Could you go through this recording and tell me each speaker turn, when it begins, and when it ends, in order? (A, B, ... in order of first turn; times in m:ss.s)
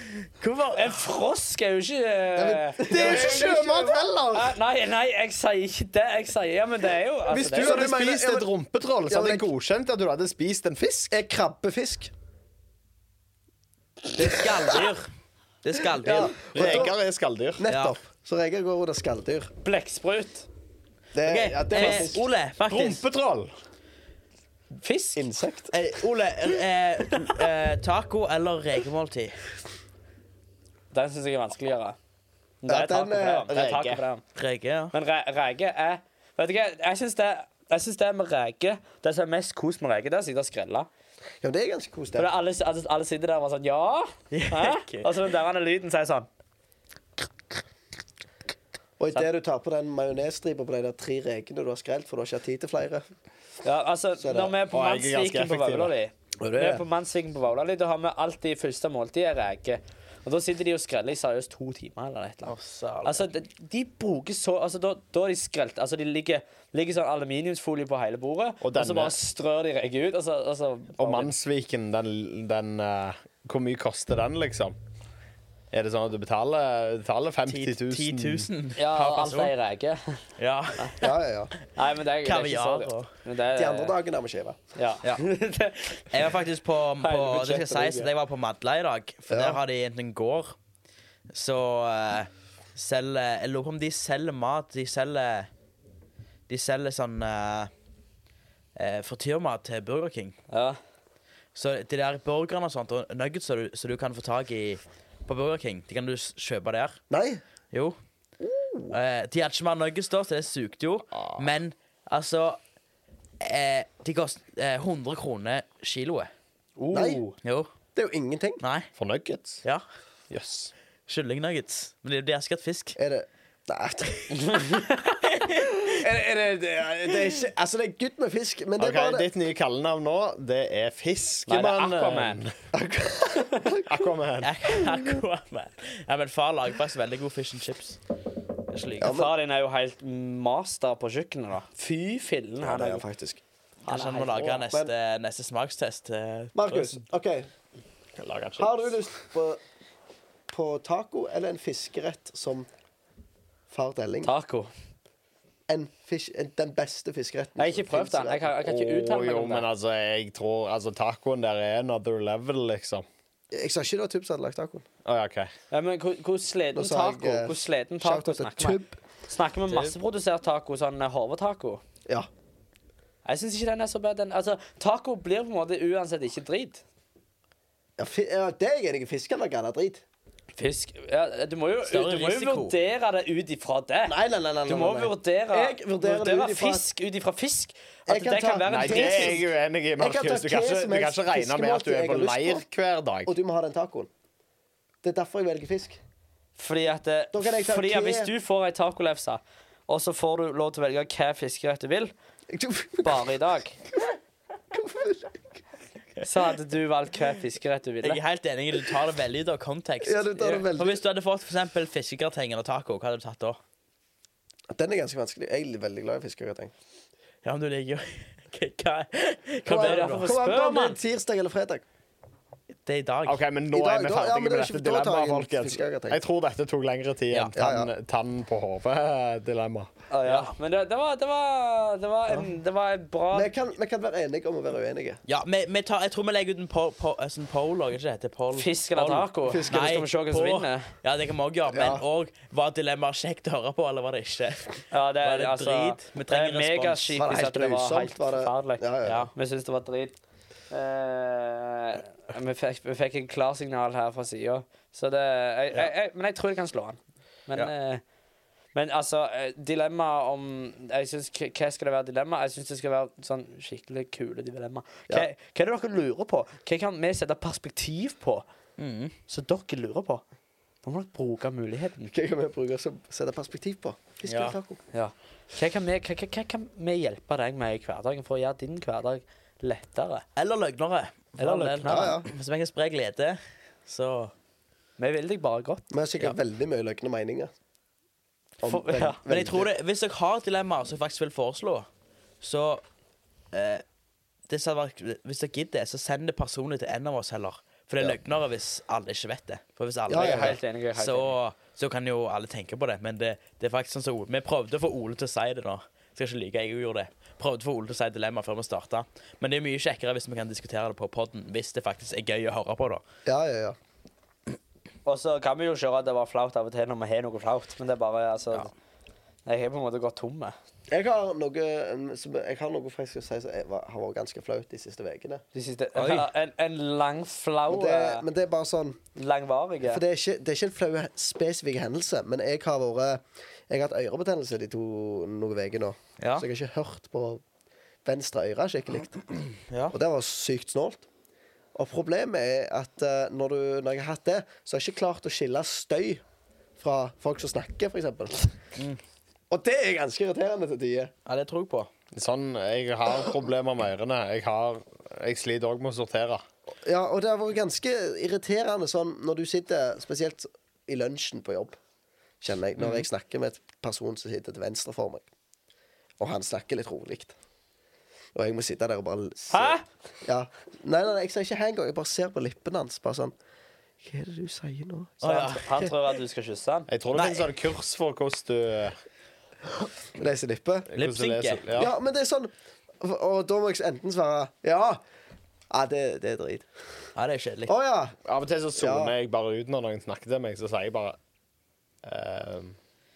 0:00.2-0:01.0 A
0:00.8-0:07.9 B
0:02.4-0:04.0 C
0:02.9-0:04.6 D
0:07.3-0:11.1 D
0:07.5-0:08.5 C
0:09.1-0:09.5 C
0:11.1-0:12.1 C
0:14.1-0:15.1 A
0:15.6-0:16.9 A
0:16.0-0:16.9 C
0:16.5-0:17.7 D
0:17.6-0:19.5 C
0:17.7-0:18.0 A
0:19.6-0:20.5 B
0:21.1-0:22.2 C
0:21.2-0:23.0 A
0:21.7-0:22.2 B
0:22.7-0:23.5 D
0:24.8-0:25.3 B
0:25.2-0:25.7 C
0:25.7-0:29.4 A
0:30.9-0:32.0 B
0:32.6-0:34.2 B
0:32.7-0:33.5 C
0:33.5-0:34.0 D
0:34.4-0:34.9 A
0:34.9-0:40.9 B
0:41.4-0:42.3 C
0:42.1-0:46.3 B
0:44.3-0:45.1 A
0:49.0-0:53.1 C
0:53.6-1:11.3 B
0:54.2-0:54.6 C
0:54.7-0:55.9 D
0:56.4-0:56.8 C
1:02.4-1:03.2 A
1:08.6-1:09.1 D
1:11.0-1:14.8 D
1:15.7-1:18.5 D
1:17.5-1:19.5 A
1:18.8-1:20.2 B
1:20.4-1:21.2 A
1:21.0-1:21.5 C
1:21.7-1:23.9 B
1:22.2-1:23.1 A
1:23.6-1:24.6 C
1:24.8-1:26.1 B
1:26.1-1:30.6 A
1:27.0-1:27.6 B
1:27.4-1:28.0 C
1:29.3-1:29.6 C
1:31.3-1:35.5 A
1:36.5-1:37.7 A
1:38.8-1:40.4 A
1:40.5-1:40.8 B
1:41.6-1:47.0 A
1:47.1-1:47.4 C
1:47.7-1:48.0 A
1:48.4-1:48.9 C
1:48.9-1:52.6 A
1:51.2-1:51.5 D
1:53.4-1:56.3 A
1:56.8-1:57.4 B
1:56.9-1:57.2 C
1:57.4-1:57.7 A
1:57.9-1:58.6 C
1:58.6-1:58.9 A
1:59.0-1:59.6 D
2:00.3-2:00.7 D
2:01.1-2:03.0 A
2:03.0-2:04.6 C
2:04.4-2:05.2 B
2:05.3-2:05.9 A
2:05.8-2:09.3 C
2:08.8-2:12.6 D
2:11.5-2:12.4 B
2:12.7-2:14.1 C
2:13.9-2:14.5 D
2:14.4-2:18.0 A
2:18.7-2:19.2 A
2:19.0-2:19.3 C
2:19.0-2:23.0 B
2:22.6-2:23.4 C
2:23.8-2:27.0 A
2:23.9-2:24.6 B
2:26.6-2:27.5 C
2:28.2-2:28.9 D
2:28.6-2:29.6 C
2:30.5-2:32.7 C
2:33.7-2:34.3 C
2:34.2-2:34.7 B
2:35.7-2:38.5 C
2:37.6-2:39.7 B
2:38.6-2:43.1 D
2:43.5-2:44.8 C
2:45.0-2:45.5 D
2:45.7-2:51.8 B
2:46.7-2:49.0 C
2:53.2-2:56.8 B
2:58.0-3:00.0 C
3:00.6-3:09.4 B
3:01.8-3:02.8 A
3:04.1-3:06.8 C
3:08.1-3:09.4 C
3:08.7-3:13.3 D
3:10.0-3:12.6 C
3:13.3-3:14.1 C
3:15.0-3:16.0 C
3:16.6-3:22.1 B
3:17.3-3:18.3 C
3:22.5-3:23.3 C
3:23.0-3:23.8 B
3:24.7-3:25.4 C
3:26.2-3:28.2 B
3:28.0-3:33.6 A
3:30.0-3:31.0 C
3:34.7-3:36.7 C
3:37.4-3:40.3 A
3:39.7-3:41.0 B
3:39.7-3:41.8 C
3:42.8-3:43.4 A
3:43.3-3:49.9 D
3:43.7-3:46.2 C
3:47.5-3:47.9 C
3:50.1-3:53.5 B
3:50.2-3:50.5 A
3:53.3-3:55.2 C
3:55.3-4:07.2 A
3:58.5-4:00.9 B
3:59.4-3:59.9 C
4:01.7-4:02.0 C
4:04.9-4:10.2 B
4:07.2-4:09.3 C
4:09.0-4:09.3 A
4:10.7-4:18.0 B
4:18.7-4:28.4 B
4:28.8-4:29.1 A
4:29.3-4:30.2 B
4:30.8-4:32.1 B
4:32.1-4:34.8 C
4:34.2-4:34.6 A
4:34.9-4:40.2 B
4:40.4-4:44.3 A
4:41.4-4:42.2 B
4:41.8-4:42.3 C
4:45.0-4:45.9 B
4:45.9-4:47.5 C
4:48.6-4:49.7 C
4:48.6-4:49.2 B
4:49.3-4:51.9 A
4:52.4-4:52.8 A
4:53.5-4:53.8 A
4:54.5-5:13.0 A
5:00.1-5:00.6 C
5:00.1-5:01.4 B
5:13.3-5:13.8 C
5:15.0-5:18.7 B
5:19.4-5:20.6 B
5:20.9-5:25.4 C
5:25.5-5:28.2 B
5:26.0-5:26.3 A
5:27.7-5:29.0 C
5:29.2-5:30.0 B
5:29.8-5:37.4 C
5:38.0-5:39.2 C
5:39.7-5:39.9 A
5:39.9-5:41.0 C
5:41.8-5:46.2 C
5:46.8-5:48.5 C
5:49.5-5:51.1 C
5:51.3-5:51.9 A
5:52.1-5:56.4 D
5:56.8-6:01.8 C
6:02.4-6:05.3 C
6:02.8-6:03.1 A
6:06.2-6:07.4 C
6:08.4-6:13.3 C
6:09.5-6:09.8 B
6:14.0-6:15.9 C
6:15.2-6:15.6 A
6:15.2-6:16.9 B
6:16.9-6:19.0 D
6:17.1-6:17.5 A
6:20.2-6:20.9 C
6:20.9-6:21.9 D
6:20.9-6:21.6 A
6:21.8-6:25.0 C
6:25.7-6:26.7 C
6:27.2-6:27.7 A
6:27.7-6:28.2 C
6:28.3-6:31.2 D
6:28.8-6:29.1 C
6:32.0-6:32.8 D